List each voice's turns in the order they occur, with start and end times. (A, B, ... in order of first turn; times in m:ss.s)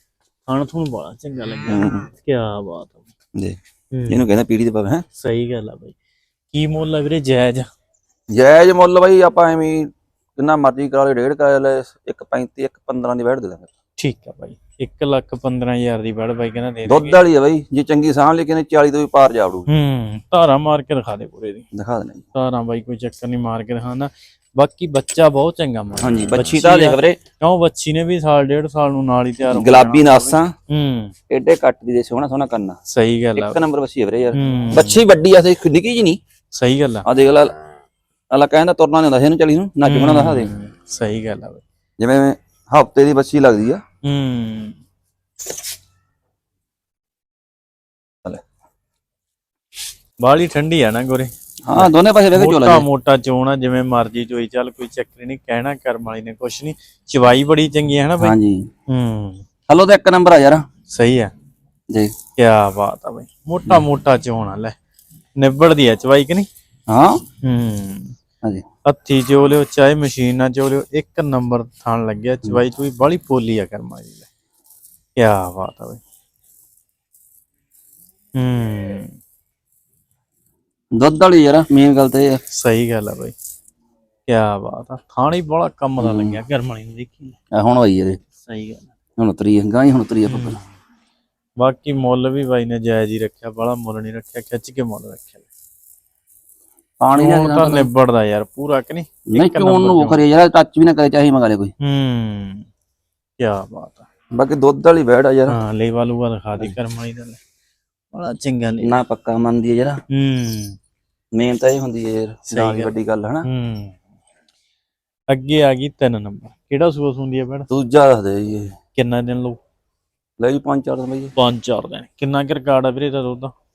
0:00.5-0:03.0 A
0:01.7-0:02.1 B
0:03.4-0:05.0 B
0:03.9-0:04.2 A
0:05.2-0:06.0 A
0:06.5-0:07.7 A
0:08.3-0:13.7 B
0:14.0-0:17.2 A
0:16.9-0:19.7 B
0:19.7-0:21.7 A
0:21.7-0:22.2 B
0:22.3-0:31.1 A
0:26.0-0:27.2 B
0:29.5-0:30.5 B
0:31.3-0:32.8 B
0:32.9-0:33.6 A
0:33.4-0:36.2 B
0:34.3-0:35.0 A
0:36.6-0:37.1 A
0:37.1-0:37.5 B
0:38.3-0:40.5 B
0:39.8-0:41.6 A
0:42.0-0:43.8 B
0:44.0-0:44.8 A
0:50.2-0:58.4 A
0:51.7-0:52.8 B
0:58.2-0:58.7 B
0:58.9-0:59.4 A
0:59.7-1:00.6 B
1:00.9-1:01.3 A
1:02.4-1:04.7 A
1:05.4-1:06.5 A
1:06.9-1:07.2 B
1:07.4-1:08.2 A
1:08.9-1:14.3 A
1:15.2-1:16.0 A
1:18.4-1:19.2 A
1:21.0-1:22.4 B
1:22.6-1:23.3 A
1:24.3-1:27.4 A
1:26.0-1:26.4 B
1:27.5-1:28.2 B
1:28.4-1:28.9 A
1:29.2-1:30.6 B
1:30.3-1:30.6 A
1:31.6-1:35.4 A
1:37.0-1:37.9 B
1:37.2-1:40.2 A
1:39.3-1:41.7 B
1:41.8-1:42.7 A
1:43.4-1:44.1 A
1:44.4-1:45.6 B
1:45.5-1:47.4 A
1:48.1-1:49.0 A
1:48.8-1:50.0 B
1:50.1-1:50.8 A
1:51.4-1:53.5 B
1:52.5-1:54.0 A
1:55.3-1:57.7 A
1:57.7-1:58.7 B
1:59.0-1:59.6 A
2:00.4-2:01.3 B
2:01.4-2:03.5 A